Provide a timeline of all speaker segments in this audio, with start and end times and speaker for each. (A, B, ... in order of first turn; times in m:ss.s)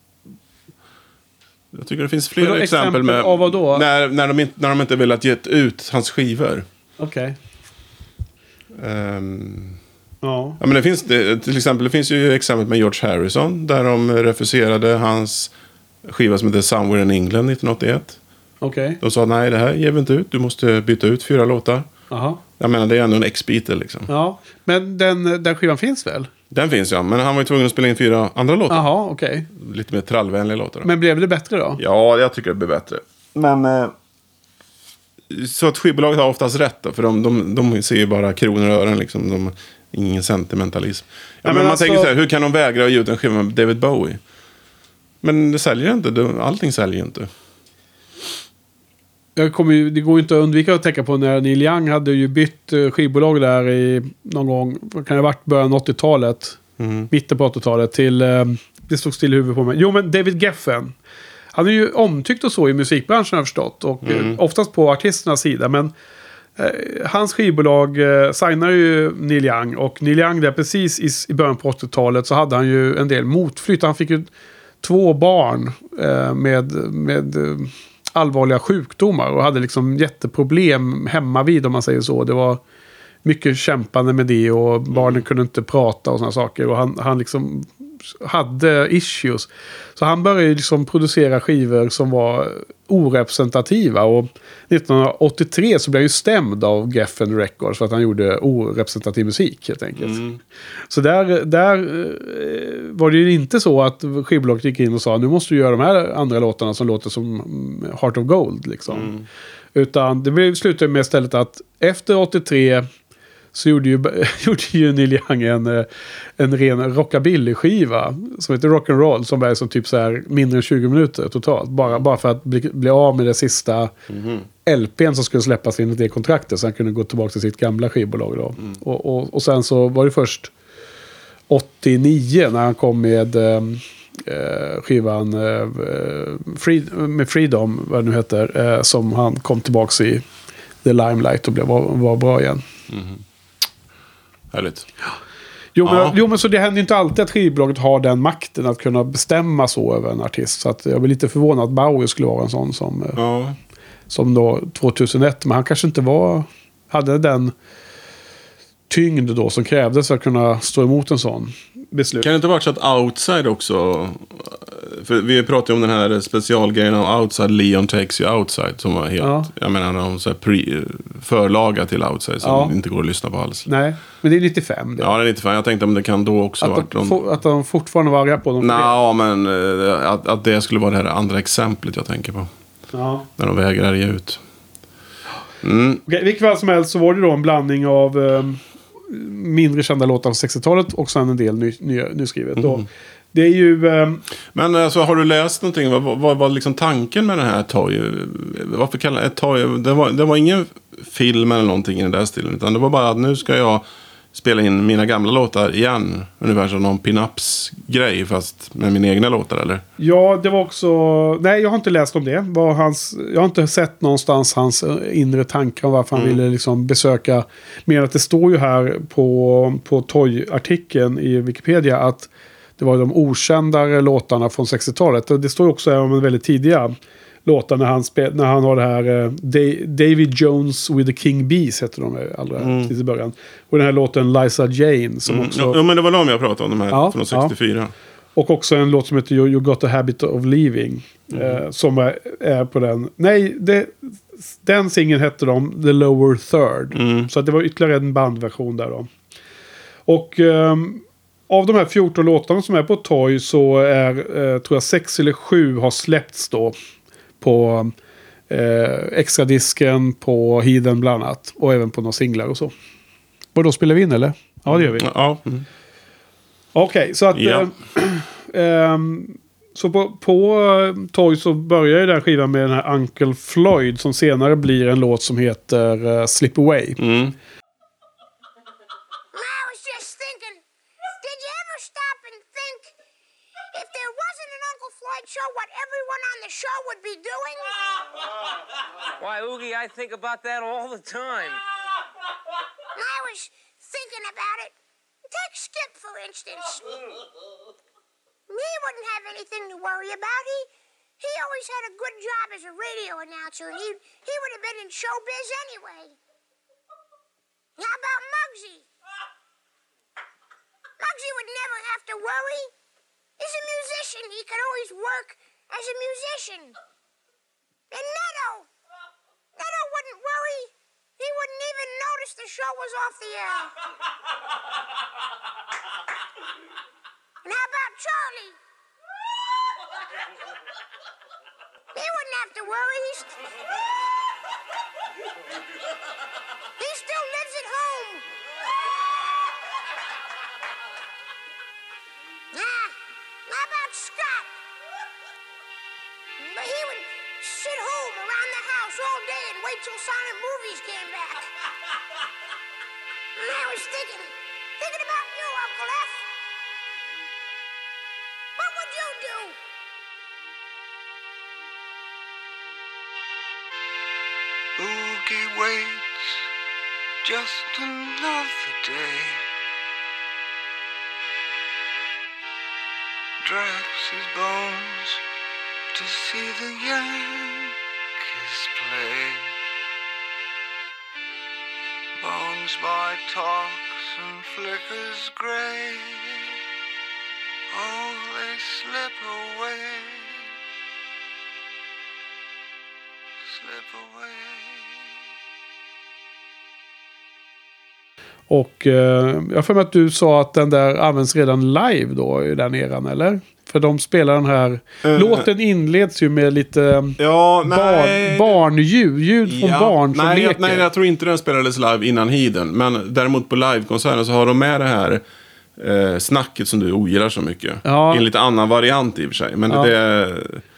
0:01.7-0:06.7 A
0:02.4-0:03.9 B
0:07.0-0:07.4 B
0:08.7-0:09.8 A
0:10.2-0:10.6 B
0:10.6-0:15.5 A
0:16.0-0:18.2 A
0:18.6-0:19.0 B
0:19.0-0:21.9 A
0:22.1-0:22.4 B
0:22.6-0:24.1 A
0:24.1-0:26.3 B
0:26.5-0:28.9 A
0:28.7-0:29.5 B
0:29.5-0:30.9 A
0:30.8-0:31.8 B
0:31.8-0:33.9 A
0:35.3-0:44.2 A
0:41.4-0:42.1 B
0:45.2-0:47.3 A
0:49.4-1:01.0 B
0:56.8-0:57.1 A
1:01.5-1:05.9 B
1:04.0-1:04.4 A
1:06.6-1:14.3 B
1:14.8-1:22.6 B
1:23.2-1:40.2 B
1:24.9-1:25.2 A
1:40.0-1:40.4 A
1:40.9-1:49.1 B
1:48.9-1:49.3 A
1:49.8-1:52.9 B
1:53.5-1:55.9 B
1:56.4-2:03.9 B
2:04.1-2:04.5 A
2:04.7-2:10.5 B
2:11.5-2:20.2 B
2:20.8-2:22.6 B
2:22.9-2:23.2 A
2:24.5-2:24.9 A
2:25.8-2:33.2 B
2:25.8-2:26.2 A
2:33.2-2:33.6 A
2:34.1-2:37.5 B
2:38.9-2:42.2 B
2:42.2-2:53.7 A
2:49.2-2:49.5 B
2:52.4-2:52.7 B
2:53.7-2:55.1 B
2:55.0-2:57.2 A
2:56.6-2:59.0 B
2:58.6-3:02.5 A
3:02.9-3:03.3 B
3:03.4-3:04.4 A
3:05.6-3:06.0 A
3:06.1-3:14.2 B
3:12.6-3:12.8 A
3:14.5-3:29.8 A
3:30.0-3:55.8 B
3:36.1-3:36.4 A
3:52.6-3:52.9 A
3:55.3-3:57.9 A
3:56.9-3:57.6 B
3:58.4-4:09.1 B
4:01.3-4:01.6 A
4:06.9-4:07.3 A
4:10.1-4:16.8 B
4:17.4-4:17.9 B
4:18.5-4:22.7 B
4:23.6-4:25.1 B
4:24.7-4:25.6 A
4:26.8-4:37.0 B
4:27.3-4:27.7 A
4:37.0-4:37.4 A
4:39.3-4:40.6 C
4:41.2-4:42.9 C
4:43.7-4:48.1 C
4:49.2-4:51.6 D
4:53.0-4:54.8 C
4:55.3-4:57.0 C
4:58.5-5:06.2 C
5:07.8-5:08.9 C
5:11.0-5:12.7 C
5:13.4-5:16.8 C
5:17.9-5:18.7 C
5:19.6-5:23.7 C
5:27.4-5:28.6 C
5:31.9-5:33.4 C
5:36.8-5:38.2 C
5:42.5-5:43.0 C
5:43.5-5:44.5 C
5:46.4-5:51.5 C
5:53.4-5:56.3 C
5:58.6-5:59.6 C
6:04.8-6:06.4 E
6:07.2-6:09.5 E
6:13.4-6:15.2 E
6:15.9-6:19.5 E
6:22.2-6:26.4 E
6:27.7-6:30.3 E
6:33.5-6:34.8 E
6:38.5-6:50.8 B
6:45.0-6:45.5 A
6:47.2-6:48.6 A
6:49.4-6:55.2 A
6:55.8-7:00.6 A
6:57.8-6:58.2 B